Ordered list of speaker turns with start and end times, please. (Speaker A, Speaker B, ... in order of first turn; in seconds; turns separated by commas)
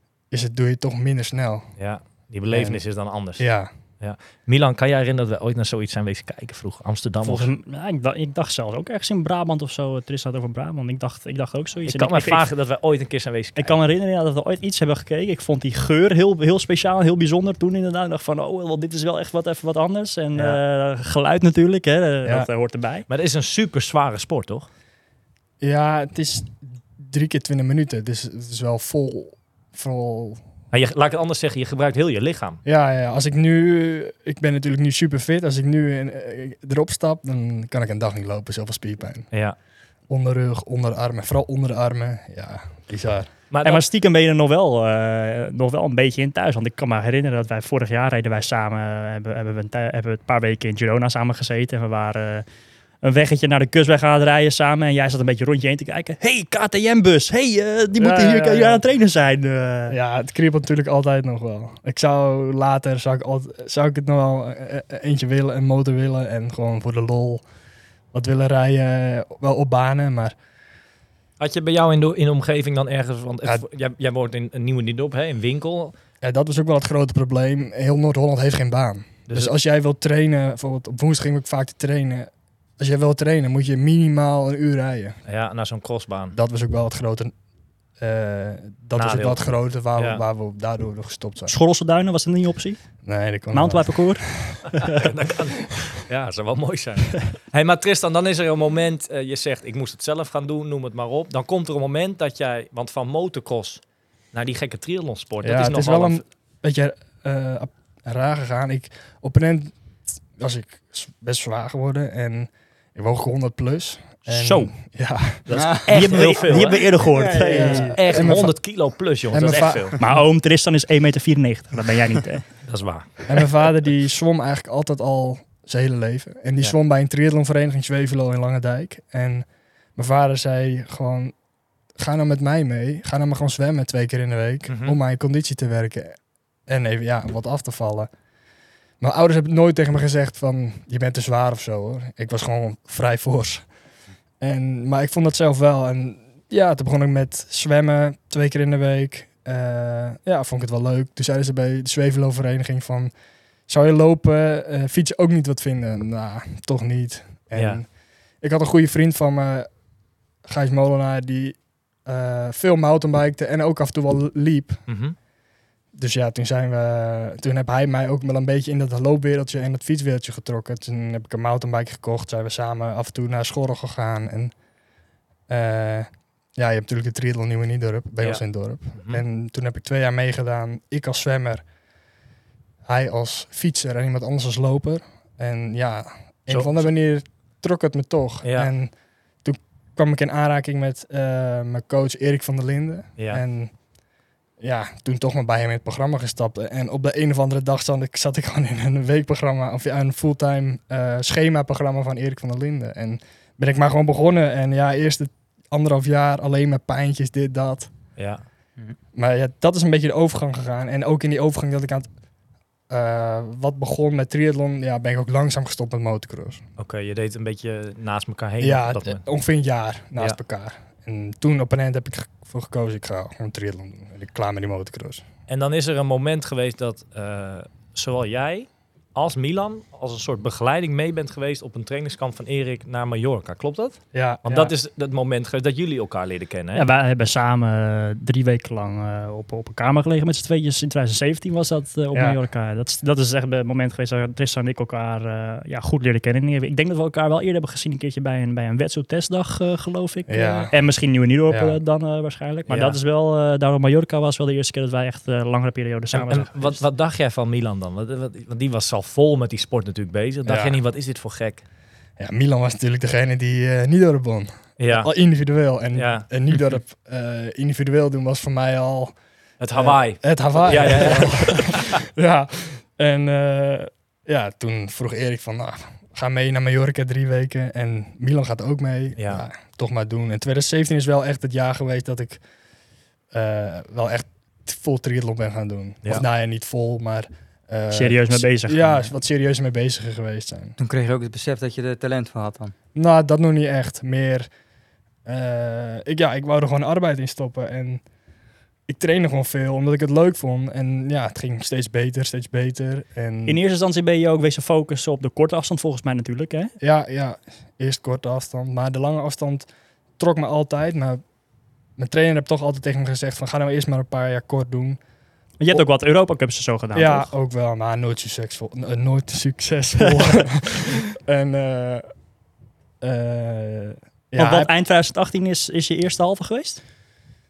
Speaker A: 0.3-1.7, Speaker B: 1.8-7.5, Speaker A: 2.5-3.7, Speaker C: 7.2-12.5, Speaker B: 11.8-13.8, Speaker C: 13.6-23.1, Speaker B: 23.1-24.7, Speaker A: 25.6-30.4, Speaker B: 30.7-32.6, Speaker A: 32.6-39.3, Speaker A: 40.1-43.3, Speaker B: 43.5-43.9, Speaker C: 43.6-52.4, Speaker C: 53.0-60.0, Speaker A: 58.0-58.8, Speaker A: 59.9-67.4, Speaker A: 68.1-70.3, Speaker B: 71.4-76.0, Speaker A: 76.2-85.2, Speaker B: 79.3-79.5, Speaker B: 85.2-86.4, Speaker A: 86.3-87.3, Speaker A: 88.0-91.5, Speaker B: 88.9-90.2, Speaker C: 91.5-95.0, Speaker A: 93.0-94.6, Speaker B: 94.8-106.2, Speaker A: 105.4-109.8, Speaker A: 110.3-115.5, Speaker B: 114.2-114.7, Speaker B: 115.4-117.3, Speaker D: 115.5-118.3, Speaker C: 115.9-118.0, Speaker A: 117.3-120.0, Speaker B: 117.9-120.0, Speaker C: 120.0-122.7, Speaker B: 122.7-123.4, Speaker A: 123.3-131.3, Speaker A: 131.9-138.1, Speaker B: 134.7-135.0, Speaker A: 139.0-143.7, Speaker A: 144.4-153.1, Speaker A: 153.7-159.7, Speaker B: 157.5-157.8, Speaker A: 160.4-164.8, Speaker B: 164.9-165.2, Speaker A: 165.9-174.5, Speaker A: 175.5-181.6, Speaker B: 178.9-179.2, Speaker A: 182.8-193.8, Speaker B: 186.5-186.9, Speaker B: 188.4-188.7, Speaker B: 193.2-193.4, Speaker A: 194.6-207.9, Speaker B: 208.2-208.4, Speaker A: 209.1-212.1, Speaker A: 212.9-216.6, Speaker B: 216.8-219.2, Speaker A: 218.6-225.2, Speaker B: 225.5-236.8, Speaker A: 234.1-234.7, Speaker C: 236.7-256.8, Speaker A: 242.1-242.4, Speaker A: 250.3-250.7, Speaker A: 251.5-251.8, Speaker B: 252.7-253.0, Speaker B: 256.1-261.6, Speaker A: 260.4-260.8, Speaker A: 262.2-269.2, Speaker B: 264.8-265.1, Speaker B: 265.9-266.3, Speaker B: 269.6-272.0, Speaker A: 269.7-282.4, Speaker B: 279.2-279.4, Speaker A: 283.3-290.8, Speaker C: 287.9-288.9, Speaker D: 290.8-292.7, Speaker A: 292.9-294.5, Speaker A: 295.2-298.0, Speaker A: 298.9-303.6, Speaker C: 303.4-306.7, Speaker A: 306.8-311.2, Speaker A: 312.0-315.0, Speaker C: 315.6-317.3, Speaker A: 316.9-322.1, Speaker A: 323.0-324.7, Speaker C: 324.4-326.8